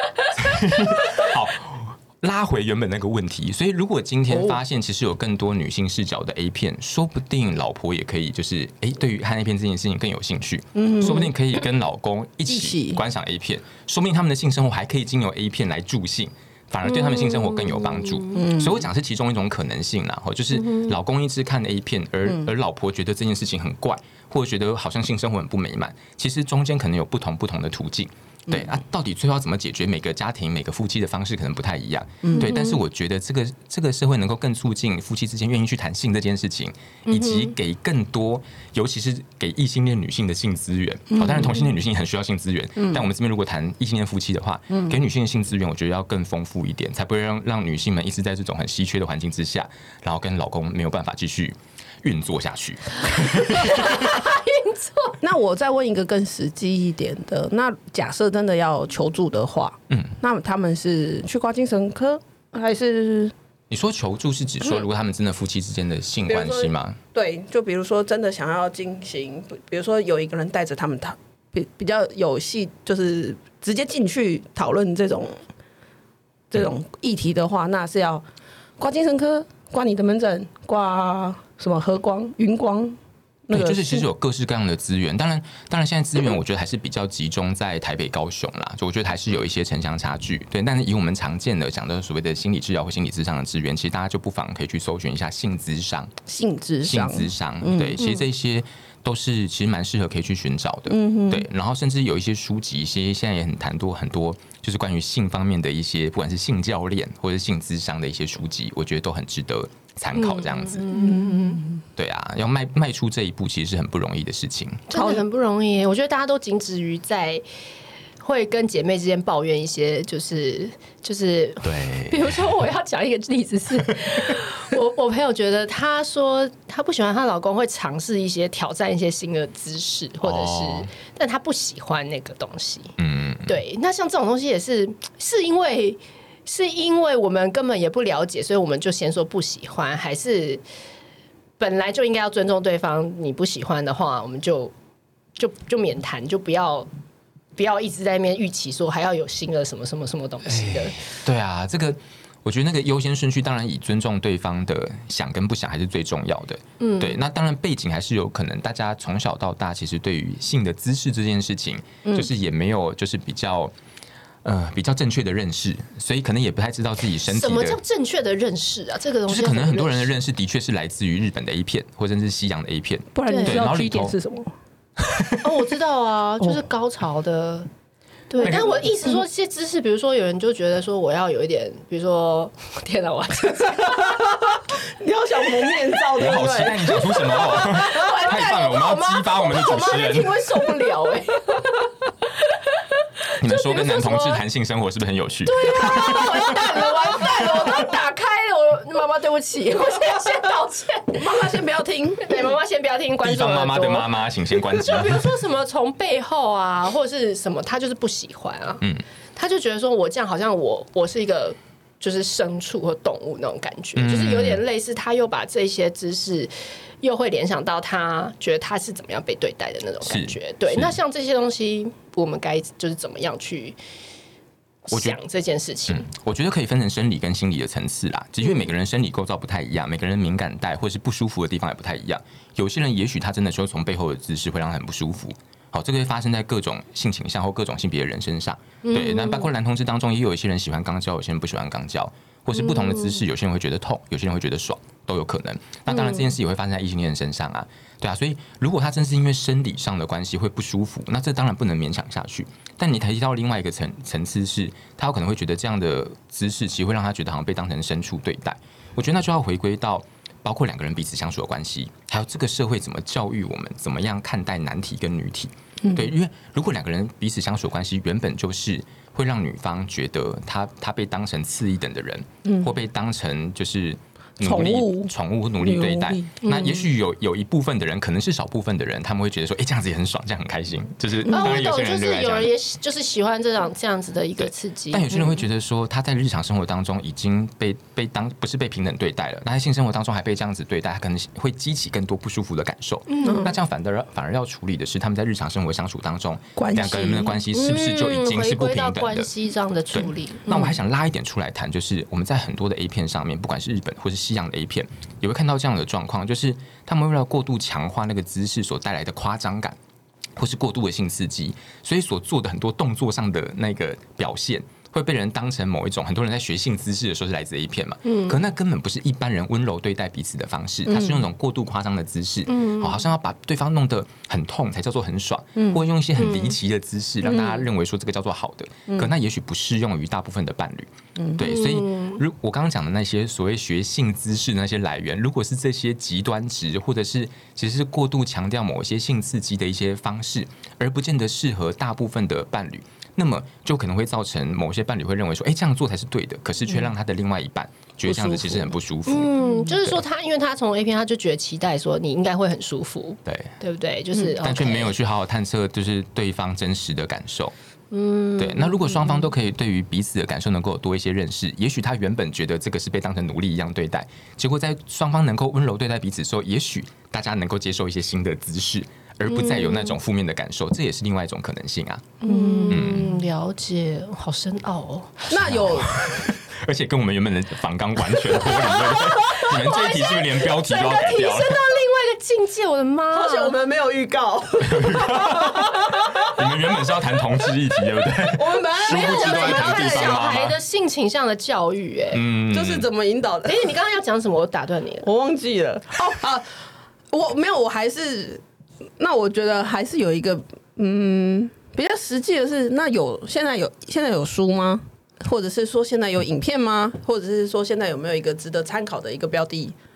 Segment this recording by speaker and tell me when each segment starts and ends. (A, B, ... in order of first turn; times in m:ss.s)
0:00.3-0:54.2 A
0:10.7-0:11.3 B
0:12.5-0:13.0 B
0:18.3-0:18.9 B
0:32.2-0:32.6 B
0:32.4-0:32.8 C
0:37.1-0:37.5 C
0:41.1-0:41.6 B
0:53.2-0:55.2 C
0:55.2-1:03.3 B
1:03.7-1:07.0 A
1:06.3-1:15.4 B
1:16.5-1:18.2 B
1:18.8-1:24.1 B
1:23.5-1:36.1 A
1:36.3-1:38.0 B
1:36.8-1:50.8 A
1:40.9-1:41.5 B
1:50.2-1:51.6 C
1:50.9-1:51.7 B
1:52.0-1:54.8 A
1:54.9-1:57.4 C
1:54.9-1:55.2 B
1:58.2-2:20.6 C
2:01.6-2:02.5 A
2:10.2-2:10.9 A
2:13.0-2:13.5 A
2:21.6-2:24.7 C
2:25.4-2:26.9 C
2:27.6-2:31.0 C
2:30.4-2:43.7 A
2:36.8-2:37.2 C
2:42.0-2:42.3 B
2:44.4-2:47.8 A
2:47.2-2:50.1 C
2:49.3-2:54.2 A
2:53.1-2:54.5 B
2:53.3-2:53.6 C
2:55.4-2:57.7 C
2:58.3-3:04.6 C
2:58.4-2:58.8 A
2:58.4-2:59.1 B
3:03.8-3:07.8 B
3:06.1-3:10.4 A
3:07.2-3:11.9 C
3:13.4-3:16.7 A
3:13.4-3:14.4 C
3:15.4-3:21.4 C
3:16.1-3:17.9 B
3:21.1-3:22.4 B
3:22.2-3:28.8 C
3:23.2-3:25.3 A
3:29.4-3:36.5 C
3:34.0-3:34.6 A
3:37.0-3:43.8 C
3:40.0-3:41.0 A
3:44.8-3:46.1 C
3:44.9-3:45.2 A
3:45.9-4:42.5 A
3:58.8-3:59.5 C
4:05.9-4:06.2 C
4:25.8-4:26.1 B
4:32.4-4:32.7 B
4:34.4-4:36.5 B
4:36.4-4:36.8 C
4:41.3-4:45.4 C
4:44.4-4:59.3 A
4:53.1-4:53.5 C
4:53.2-4:53.5 B
4:56.6-4:57.4 B
4:57.5-5:00.7 C
4:59.9-5:09.8 A
5:10.4-5:50.0 A
5:18.0-5:18.4 C
5:20.9-5:21.2 B
5:22.5-5:23.0 C
5:25.6-5:25.8 B
5:26.2-5:26.5 C
5:27.3-5:27.6 B
5:31.2-5:31.4 B
5:31.4-5:32.2 C
5:48.1-5:48.7 B
5:49.1-5:54.9 C
5:53.2-5:53.5 A
5:54.2-5:57.5 A
5:57.9-5:59.2 C
5:58.4-6:12.2 A
6:09.3-6:09.9 C
6:12.2-6:13.0 B
6:12.2-6:15.3 C
6:12.7-6:13.1 A
6:15.3-6:16.3 B
6:15.4-6:21.6 A
6:18.5-6:23.6 C
6:23.1-6:26.3 B
6:24.6-6:30.6 A
6:28.3-6:30.3 B
6:28.8-6:32.2 C
6:32.1-6:32.9 A
6:32.5-6:33.7 B
6:33.4-6:35.1 C
6:35.0-6:36.4 B
6:37.1-6:38.4 B
6:39.0-6:49.7 B